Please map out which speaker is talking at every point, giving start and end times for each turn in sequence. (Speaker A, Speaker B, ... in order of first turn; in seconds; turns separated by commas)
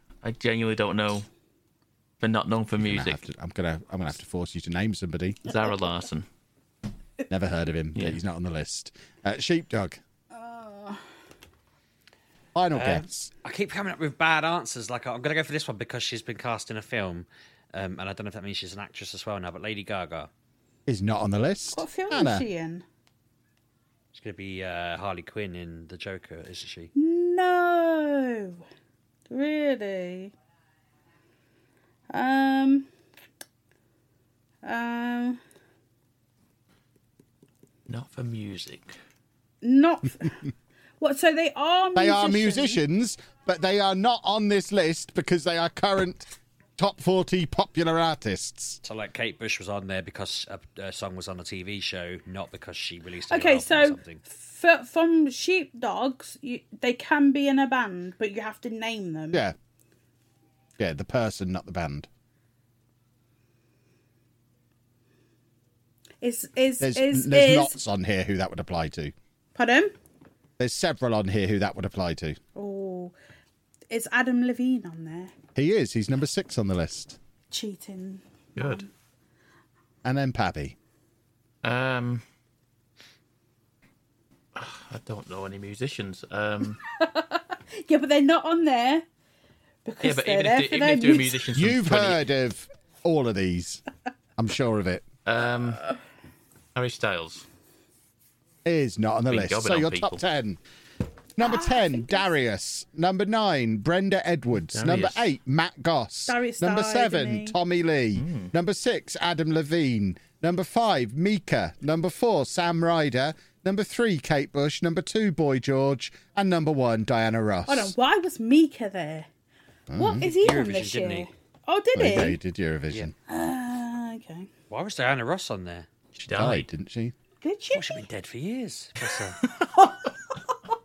Speaker A: 0.2-1.3, Speaker A: 2.2-3.2, Speaker B: 2.8-5.5, Speaker A: 5.4-6.3, Speaker B: 7.3-10.0, Speaker C: 10.3-11.0, Speaker B: 12.6-13.3, Speaker D: 12.7-20.3, Speaker B: 20.9-22.5, Speaker C: 21.7-22.9, Speaker D: 24.1-26.9, Speaker C: 26.9-28.6, Speaker C: 29.3-30.3, Speaker C: 32.1-32.9, Speaker C: 34.6-35.4, Speaker A: 37.9-39.0, Speaker C: 39.6-40.4, Speaker C: 41.0-42.8, Speaker B: 42.0-48.8, Speaker D: 48.8-54.2, Speaker C: 53.3-59.4, Speaker B: 60.8-62.1, Speaker C: 66.2-67.8, Speaker B: 66.8-69.1, Speaker C: 69.5-69.9, Speaker B: 70.6-72.4, Speaker C: 72.5-73.1, Speaker C: 73.9-75.3, Speaker B: 75.6-77.2, Speaker C: 77.5-78.9, Speaker A: 78.6-78.8, Speaker B: 80.0-80.8, Speaker A: 81.6-82.2, Speaker A: 84.5-86.8, Speaker C: 87.0-89.1, Speaker C: 89.8-91.4, Speaker A: 90.0-92.2, Speaker B: 91.5-93.8, Speaker B: 94.4-95.1, Speaker A: 95.3-95.8, Speaker A: 96.8-97.5, Speaker B: 98.7-100.6, Speaker A: 99.3-100.2, Speaker B: 101.4-117.9, Speaker C: 101.4-102.2, Speaker A: 104.7-105.3, Speaker C: 106.3-107.6, Speaker A: 108.2-108.5, Speaker C: 117.7-119.3, Speaker B: 119.9-120.3, Speaker C: 120.0-122.4, Speaker D: 120.2-121.3, Speaker B: 122.0-123.1, Speaker C: 123.3-124.5, Speaker D: 124.7-125.9, Speaker A: 126.2-126.7, Speaker B: 126.2-127.1, Speaker C: 127.4-128.0, Speaker D: 127.7-129.4, Speaker C: 129.6-130.6